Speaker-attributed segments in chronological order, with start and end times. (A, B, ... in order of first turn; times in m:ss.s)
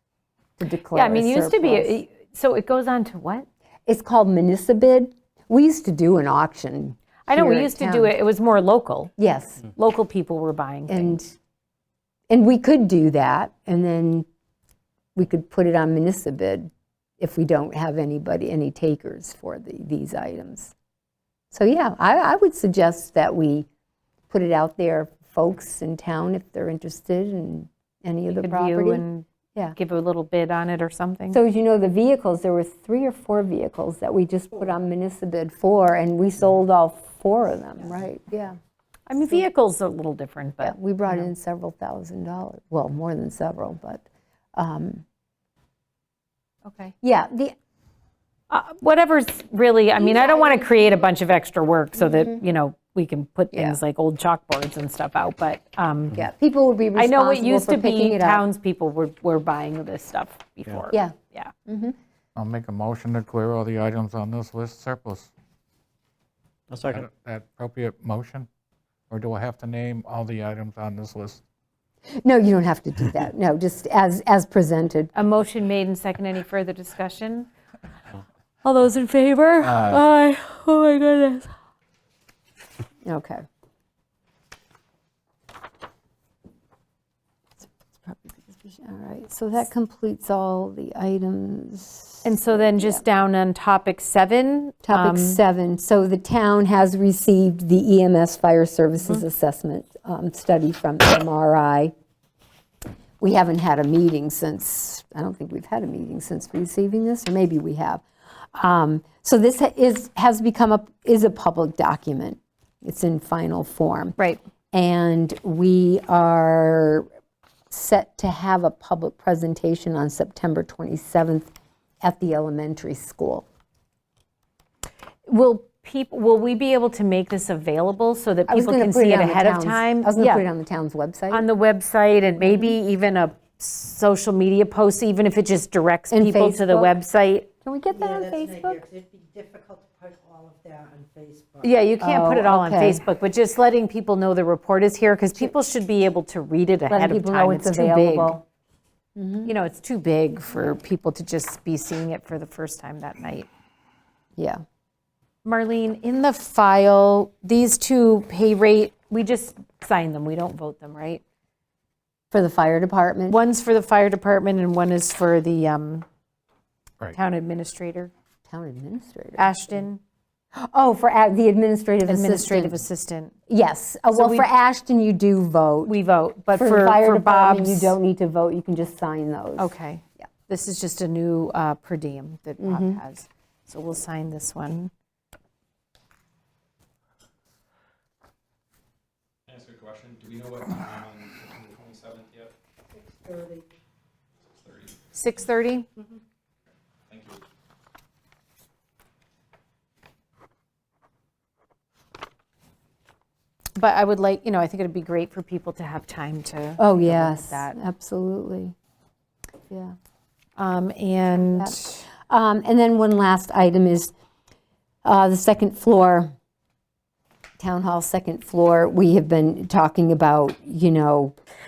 0:00.6-0:01.9 A
0:00.9-0:03.4 B
0:03.9-0:08.1 A
0:07.3-0:09.1 B
0:09.2-0:09.6 A
0:09.8-0:11.2 B
0:10.9-0:11.3 A
0:12.3-0:14.2 A
0:15.2-0:20.7 A
0:21.5-0:23.7 A
0:24.3-0:29.0 A
0:28.3-0:31.4 B
0:31.3-0:38.6 A
0:39.1-0:41.3 B
0:40.6-0:44.0 A
0:44.5-0:45.0 A
0:46.6-0:46.9 B
0:47.0-0:47.5 A
0:48.5-0:56.2 B
0:50.0-0:50.8 A
0:52.0-0:52.4 A
0:53.5-0:53.8 A
0:56.1-0:58.4 A
0:56.9-1:01.5 B
1:00.9-1:01.1 A
1:01.7-1:02.0 A
1:02.4-1:05.3 C
1:06.9-1:08.5 C
1:09.1-1:11.4 C
1:12.2-1:15.1 A
1:15.1-1:17.5 B
1:18.6-1:21.5 B
1:19.6-1:20.0 C
1:23.0-1:23.4 A
1:28.0-1:33.0 A
1:32.2-1:35.4 B
1:34.8-1:41.9 A
1:43.2-1:54.2 A
1:54.7-1:57.1 A
1:57.7-2:03.4 A
2:05.2-2:10.4 B
2:08.5-2:11.4 A
2:11.3-2:17.5 B
2:12.4-2:12.7 A
2:16.1-2:16.9 A
2:17.6-2:18.8 A
2:18.0-2:21.7 D
2:21.6-2:28.4 B
2:22.0-2:23.0 A
2:26.9-2:28.4 A
2:29.2-2:29.5 A
2:29.4-2:33.5 B
2:34.4-2:34.6 A
2:35.4-2:41.2 B
2:42.3-2:43.4 A
2:43.3-2:46.0 B
2:47.1-2:48.1 B
2:48.5-2:49.8 A
2:49.4-2:50.0 B
2:50.6-2:52.8 A
2:52.1-2:53.4 B
2:53.5-2:55.9 A
2:54.1-2:54.5 B
2:55.8-2:58.0 B
2:56.5-3:00.3 A
2:59.6-3:04.9 B
3:02.6-3:03.0 A
3:09.5-3:12.5 E
3:12.9-3:13.6 D
3:14.4-3:15.1 E
3:15.1-3:15.9 B
3:17.1-3:17.4 E
3:23.8-3:27.8 B
3:26.8-3:28.7 A
3:30.6-3:32.0 B
3:31.6-3:34.1 A
3:35.0-3:36.3 A
3:37.6-3:41.4 A